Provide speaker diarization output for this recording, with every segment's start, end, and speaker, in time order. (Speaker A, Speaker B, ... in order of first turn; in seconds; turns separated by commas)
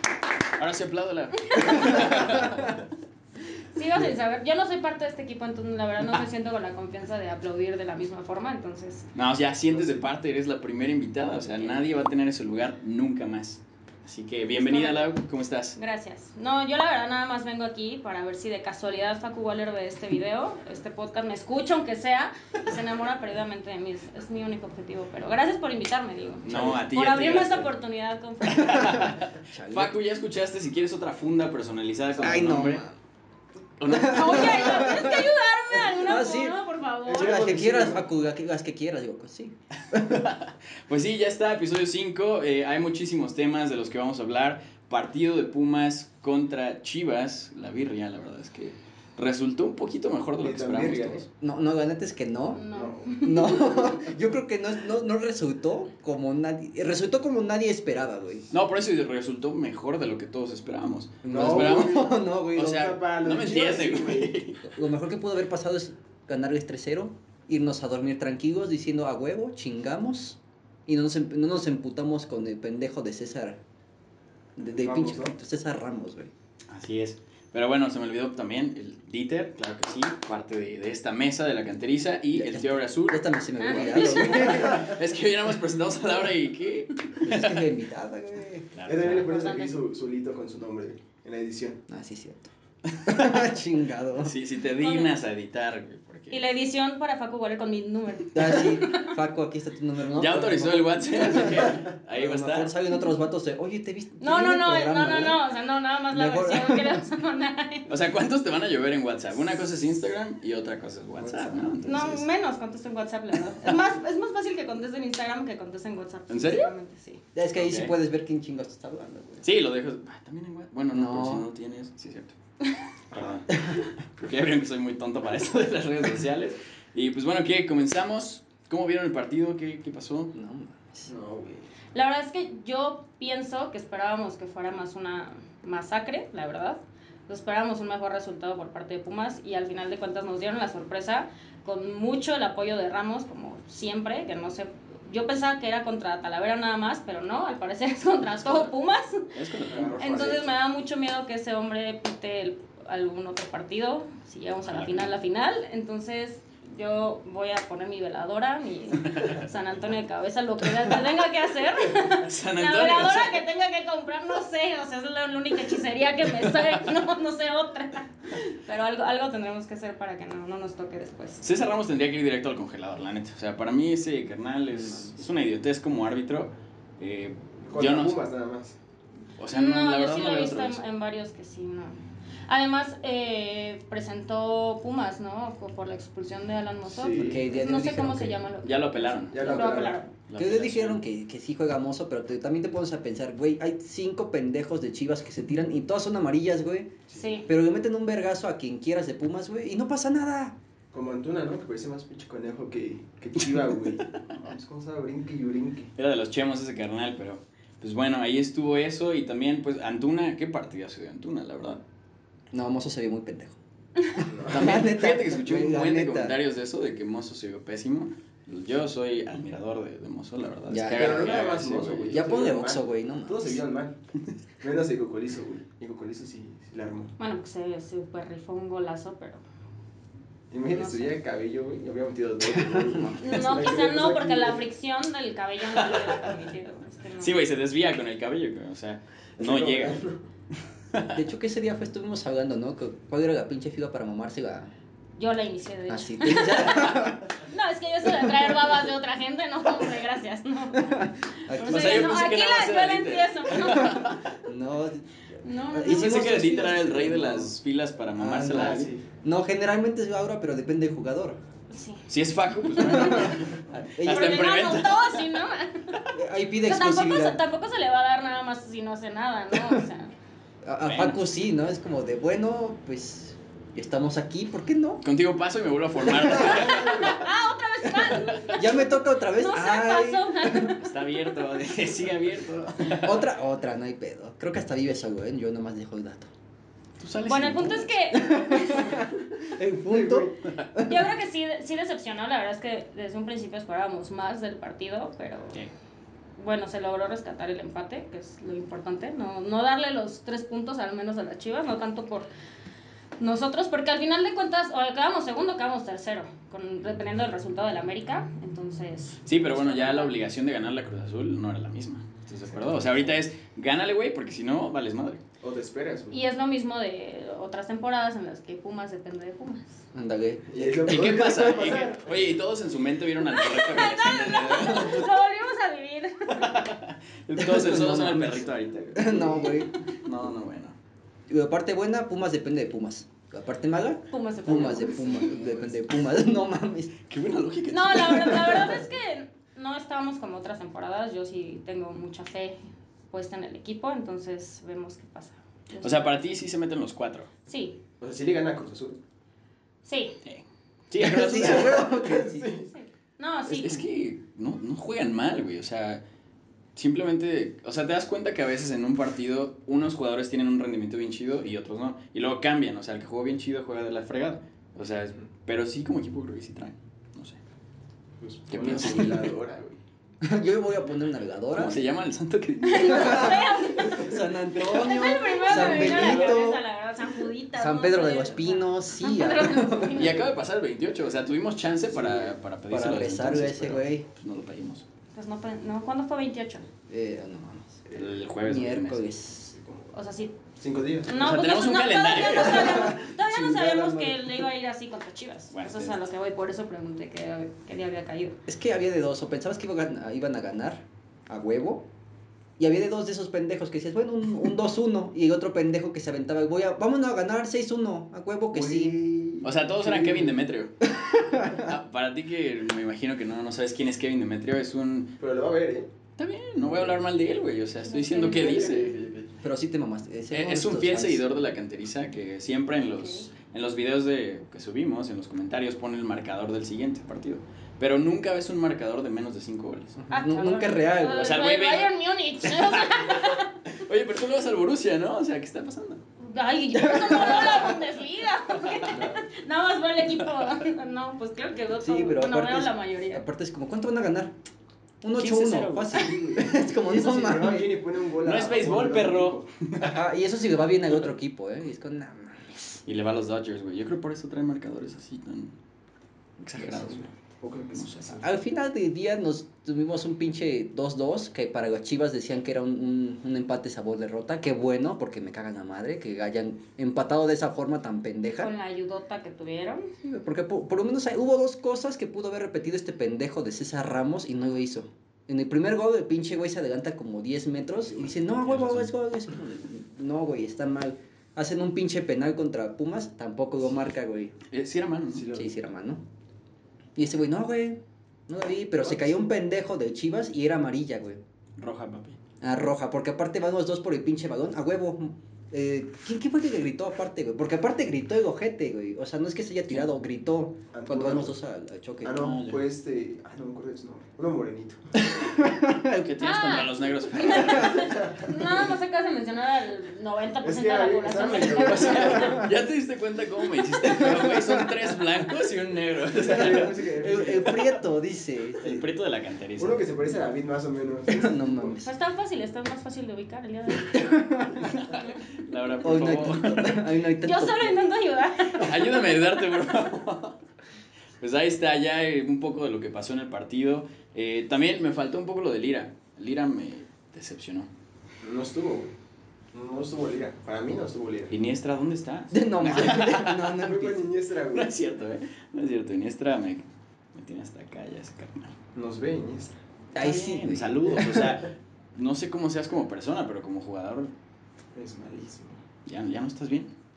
Speaker A: 0.6-2.8, Speaker B: 3.7-9.1, Speaker A: 9.1-15.8, Speaker C: 9.7-10.1, Speaker B: 14.5-15.1, Speaker B: 15.7-28.9, Speaker A: 26.4-27.7, Speaker D: 26.4-26.8, Speaker A: 28.4-32.8, Speaker D: 29.0-30.0, Speaker D: 32.1-33.0, Speaker A: 33.8-34.9, Speaker D: 33.9-36.6, Speaker B: 34.0-37.5, Speaker C: 37.0-38.0, Speaker D: 37.1-40.2, Speaker A: 39.9-51.3, Speaker C: 50.4-51.2, Speaker D: 51.4-52.6, Speaker B: 52.5-54.0, Speaker C: 52.7-53.1, Speaker D: 53.2-58.5, Speaker A: 58.5-64.7, Speaker D: 61.2-62.9, Speaker C: 61.3-64.3, Speaker D: 64.7-73.6, Speaker D: 74.6-76.3, Speaker C: 74.7-75.3, Speaker A: 76.7-87.7, Speaker D: 82.3-84.9, Speaker B: 83.6-84.7, Speaker D: 87.2-88.7, Speaker A: 88.7-89.3, Speaker C: 88.9-91.8, Speaker B: 89.2-89.7, Speaker D: 91.9-92.5, Speaker A: 93.0-93.4, Speaker D: 93.0-94.3, Speaker A: 94.2-96.4, Speaker B: 94.8-95.1, Speaker B: 96.3-99.1, Speaker D: 98.3-105.4, Speaker A: 100.1-102.8, Speaker B: 104.2-107.9, Speaker D: 106.1-106.9, Speaker A: 107.9-112.2, Speaker C: 111.2-112.0, Speaker B: 111.8-117.2, Speaker A: 116.3-116.7, Speaker D: 117.3-119.5, Speaker A: 117.5-117.9, Speaker A: 119.4-122.3, Speaker D: 120.9-121.5, Speaker C: 123.1-123.4, Speaker A: 123.1-130.3, Speaker D: 130.3-131.1, Speaker C: 131.1-131.7, Speaker B: 131.9-149.3, Speaker A: 148.3-148.7, Speaker A: 149.3-150.0, Speaker C: 149.7-150.5, Speaker B: 150.0-171.4, Speaker A: 154.6-155.1, Speaker A: 162.2-163.4, Speaker A: 166.4-166.8, Speaker A: 171.4-178.2, Speaker D: 174.7-175.1, Speaker C: 177.6-178.8, Speaker A: 179.4-180.8, Speaker B: 179.5-190.1, Speaker C: 186.9-187.5, Speaker D: 187.1-188.4, Speaker A: 188.6-189.6, Speaker C: 189.3-190.0, Speaker D: 189.4-196.9, Speaker A: 190.3-191.0, Speaker C: 197.1-197.4, Speaker B: 197.1-197.5, Speaker D: 197.5-200.5, Speaker C: 200.9-205.9, Speaker A: 205.9-211.8, Speaker D: 212.5-213.6, Speaker D: 214.2-216.3, Speaker C: 214.2-214.8, Speaker A: 214.5-222.2, Speaker D: 220.7-221.4, Speaker C: 220.9-224.0, Speaker D: 222.1-223.6, Speaker C: 224.6-227.1, Speaker B: 227.2-229.4, Speaker C: 230.5-234.6, Speaker B: 230.7-231.2, Speaker D: 232.6-233.4, Speaker B: 233.2-237.3, Speaker A: 237.2-240.0, Speaker C: 239.4-240.2, Speaker A: 240.9-241.2, Speaker D: 241.1-244.7, Speaker B: 245.2-254.0, Speaker D: 245.9-247.3, Speaker D: 250.8-252.1, Speaker A: 251.7-254.2, Speaker D: 254.4-255.0, Speaker B: 255.4-256.2, Speaker D: 255.6-257.5, Speaker A: 255.9-258.9, Speaker D: 258.1-261.4, Speaker C: 258.5-259.0, Speaker B: 261.7-262.0, Speaker A: 262.1-265.2, Speaker B: 262.6-263.4, Speaker D: 262.8-264.6, Speaker B: 264.0-265.9, Speaker D: 266.1-267.4, Speaker B: 266.6-270.1, Speaker D: 270.6-275.0, Speaker A: 270.8-271.2, Speaker A: 275.0-277.1, Speaker D: 276.0-276.8, Speaker B: 276.4-280.8, Speaker D: 278.5-280.7, Speaker A: 280.8-283.2, Speaker D: 282.9-286.3, Speaker A: 287.0-287.9, Speaker B: 287.2-289.0, Speaker D: 288.1-291.1, Speaker C: 289.9-290.4, Speaker B: 290.8-295.6, Speaker B: 296.4-302.3, Speaker B: 303.2-310.2, Speaker A: 309.2-315.2, Speaker C: 312.5-313.1, Speaker C: 315.4-316.2, Speaker B: 316.1-319.8, Speaker D: 319.9-320.9, Speaker C: 320.5-322.2, Speaker A: 320.8-325.1, Speaker B: 323.3-326.6, Speaker A: 326.3-329.3, Speaker D: 327.4-329.7, Speaker C: 329.0-329.5, Speaker A: 330.0-330.8, Speaker D: 331.3-336.9, Speaker B: 334.1-335.3, Speaker C: 335.2-335.8, Speaker A: 337.1-338.8, Speaker B: 337.7-346.2, Speaker D: 338.3-338.6, Speaker A: 345.8-347.3, Speaker B: 347.5-347.8, Speaker C: 348.0-349.0, Speaker B: 349.8-350.2, Speaker A: 350.2-351.9, Speaker D: 350.9-352.5, Speaker C: 351.4-352.7, Speaker B: 352.7-353.8, Speaker A: 353.5-356.0, Speaker A: 356.8-367.4, Speaker C: 368.2-369.8, Speaker A: 368.5-369.3, Speaker D: 370.2-371.8, Speaker A: 371.5-373.4, Speaker B: 372.6-380.3, Speaker D: 372.9-376.6, Speaker A: 375.5-376.2, Speaker D: 377.5-380.1, Speaker A: 379.9-384.8, Speaker C: 381.9-382.3, Speaker D: 382.7-384.1, Speaker B: 385.1-386.7, Speaker D: 386.9-387.8, Speaker C: 387.9-388.2, Speaker A: 387.9-389.0, Speaker D: 388.4-389.6, Speaker C: 389.5-389.9, Speaker B: 389.9-390.3, Speaker C: 390.6-391.2, Speaker B: 391.1-398.4, Speaker A: 391.1-393.0, Speaker D: 392.6-392.9, Speaker C: 393.0-394.2, Speaker A: 395.5-396.0, Speaker D: 398.5-401.9, Speaker D: 402.6-409.0, Speaker C: 408.5-410.4, Speaker A: 409.4-410.7, Speaker D: 410.8-411.7, Speaker A: 411.5-415.1, Speaker C: 415.2-415.9, Speaker A: 416.2-418.9, Speaker C: 416.6-416.9, Speaker B: 417.8-418.8, Speaker C: 418.1-419.4, Speaker D: 419.4-421.2, Speaker A: 420.3-430.0, Speaker B: 422.9-423.3, Speaker D: 430.0-431.4, Speaker B: 430.1-433.5, Speaker A: 431.1-436.0, Speaker B: 436.2-443.2, Speaker D: 436.8-437.7, Speaker C: 438.9-439.2, Speaker D: 441.8-444.3, Speaker D: 445.0-447.8, Speaker A: 445.1-446.1, Speaker C: 446.3-449.5, Speaker A: 448.2-450.0, Speaker D: 449.8-452.8, Speaker A: 452.9-455.5, Speaker A: 456.4-457.1, Speaker C: 456.7-458.2, Speaker A: 457.7-458.2, Speaker D: 458.2-468.5, Speaker B: 468.4-469.9, Speaker D: 470.0-484.4, Speaker A: 478.4-478.9, Speaker A: 484.5-485.3, Speaker C: 485.1-485.5, Speaker D: 485.3-486.0, Speaker D: 486.9-491.2, Speaker C: 488.8-489.2, Speaker A: 491.6-492.2, Speaker D: 492.4-502.3, Speaker C: 500.7-501.3, Speaker C: 502.0-504.9, Speaker A: 502.1-502.6, Speaker D: 505.0-506.1, Speaker A: 505.9-508.0, Speaker B: 506.2-512.3, Speaker C: 507.8-508.3, Speaker C: 510.4-512.5, Speaker A: 511.6-516.7, Speaker D: 514.0-514.6, Speaker C: 516.1-517.7, Speaker D: 517.0-518.8, Speaker A: 518.6-519.8, Speaker C: 519.6-521.8, Speaker D: 521.1-521.9, Speaker B: 521.8-524.1, Speaker D: 523.9-524.8, Speaker A: 524.7-526.8, Speaker D: 525.8-527.8, Speaker B: 527.2-529.1, Speaker A: 528.6-530.4, Speaker A: 531.2-537.7, Speaker C: 538.2-538.9, Speaker C: 539.5-541.3, Speaker A: 541.3-543.5, Speaker D: 542.3-544.1, Speaker C: 543.5-544.7, Speaker A: 544.5-548.5, Speaker C: 548.7-549.6, Speaker D: 549.9-551.3, Speaker A: 550.0-554.1, Speaker C: 554.7-555.6, Speaker A: 555.9-556.7